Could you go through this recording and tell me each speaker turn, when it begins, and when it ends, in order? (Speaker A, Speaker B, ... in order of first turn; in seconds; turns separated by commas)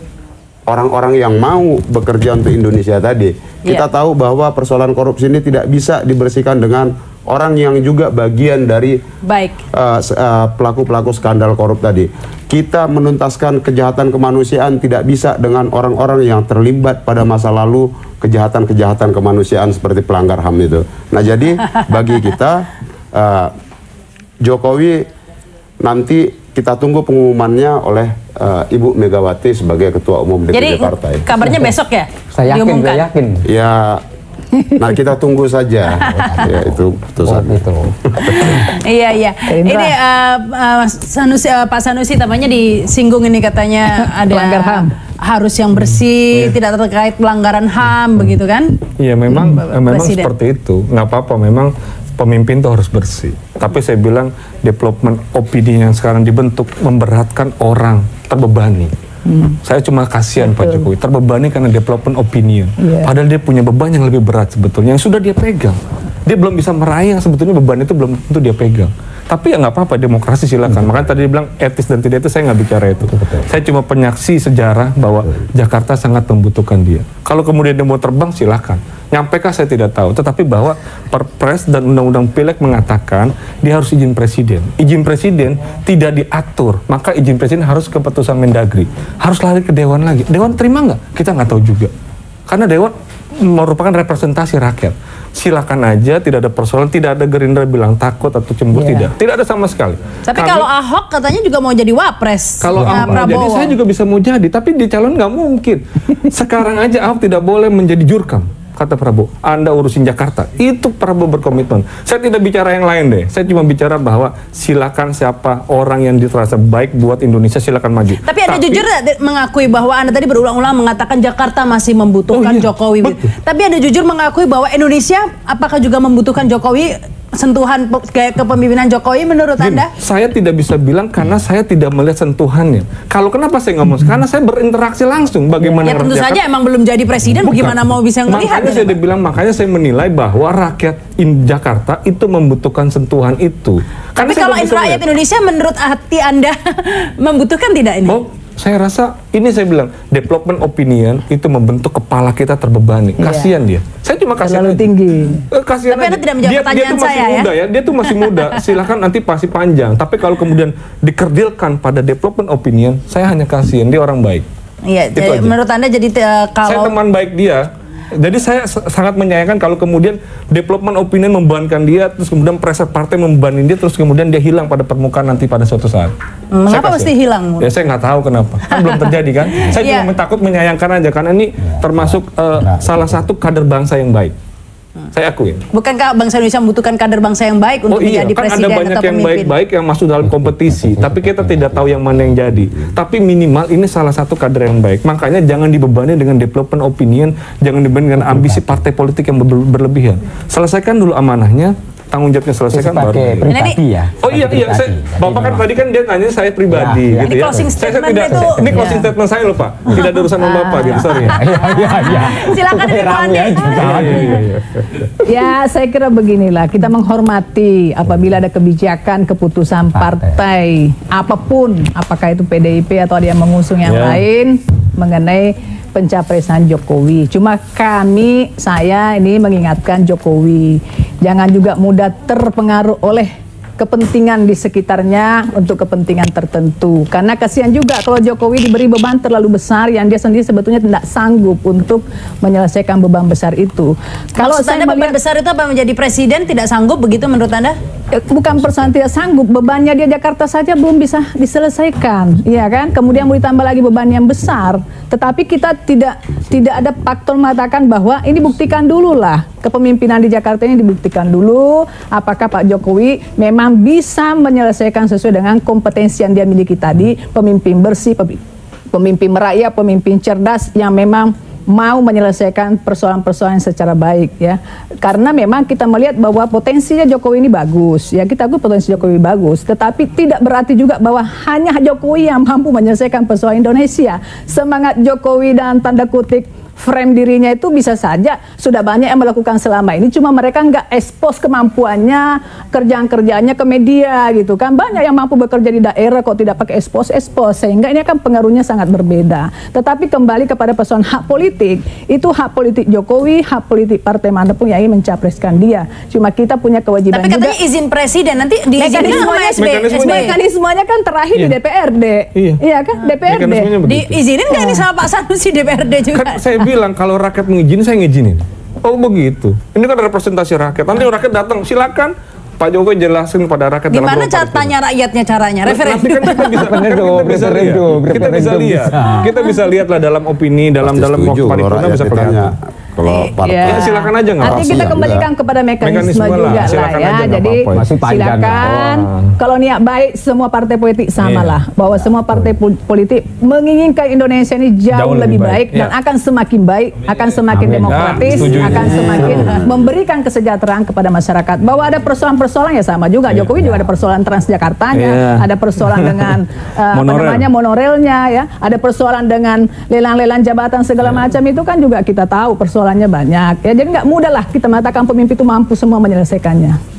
Speaker A: 0.7-9.0, Speaker B: 9.2-9.6, Speaker A: 9.8-23.5, Speaker A: 24.4-25.1, Speaker A: 25.8-31.2, Speaker B: 30.5-33.0, Speaker C: 31.4-31.7, Speaker C: 32.3-33.5, Speaker A: 33.5-34.0, Speaker D: 34.5-34.8, Speaker A: 34.8-37.6, Speaker C: 36.0-38.1, Speaker A: 38.1-38.7, Speaker B: 38.3-48.8, Speaker D: 39.5-39.9, Speaker D: 44.0-44.9, Speaker E: 49.0-58.9, Speaker B: 49.7-50.3, Speaker D: 59.2-59.6, Speaker E: 59.6-91.9, Speaker D: 60.4-60.9, Speaker D: 62.8-63.1, Speaker C: 73.1-73.5, Speaker E: 92.5-100.7, Speaker D: 98.7-99.1, Speaker B: 100.3-103.7, Speaker E: 102.6-118.8, Speaker B: 118.2-129.9, Speaker E: 122.3-123.3, Speaker E: 129.6-136.4, Speaker C: 135.6-136.0, Speaker B: 135.8-138.9, Speaker E: 137.3-145.0, Speaker B: 144.2-148.2, Speaker E: 148.1-154.9, Speaker D: 153.2-153.5, Speaker D: 154.4-155.4, Speaker E: 155.5-164.4, Speaker B: 155.9-157.5, Speaker B: 158.2-158.6, Speaker B: 164.9-166.9, Speaker E: 165.1-165.6, Speaker E: 166.7-176.1, Speaker B: 176.5-177.7, Speaker E: 176.7-184.3, Speaker B: 178.7-180.1, Speaker C: 181.7-183.3, Speaker E: 185.1-185.6, Speaker B: 185.7-189.5, Speaker E: 187.9-203.5, Speaker C: 190.2-192.6, Speaker C: 198.2-198.8, Speaker C: 202.7-205.7, Speaker B: 203.5-203.8, Speaker E: 204.2-211.5, Speaker C: 206.7-207.8, Speaker B: 207.2-208.9, Speaker C: 208.3-208.9, Speaker D: 208.8-209.1, Speaker D: 210.0-211.3, Speaker C: 211.0-214.4, Speaker B: 211.7-214.3, Speaker E: 213.8-215.1, Speaker D: 215.2-245.2, Speaker C: 219.9-220.4, Speaker E: 223.8-224.2, Speaker B: 244.4-247.8, Speaker D: 248.1-307.6, Speaker B: 307.1-310.4, Speaker D: 308.8-309.4, Speaker E: 308.9-310.3, Speaker D: 309.9-313.7, Speaker E: 312.3-312.6, Speaker E: 313.2-314.2, Speaker B: 313.8-316.4, Speaker D: 314.5-314.8, Speaker E: 316.1-324.7, Speaker B: 323.9-326.6, Speaker E: 325.6-332.5, Speaker C: 326.5-329.3, Speaker A: 330.8-333.9, Speaker B: 333.0-334.0, Speaker D: 333.4-366.8, Speaker E: 333.6-334.9, Speaker A: 334.4-335.3, Speaker E: 335.8-337.9, Speaker C: 337.7-338.8, Speaker E: 338.6-339.3, Speaker E: 341.2-341.6, Speaker E: 344.9-345.9, Speaker C: 347.5-349.4, Speaker E: 347.9-349.5, Speaker A: 349.0-349.7, Speaker E: 354.9-356.3, Speaker E: 356.9-357.5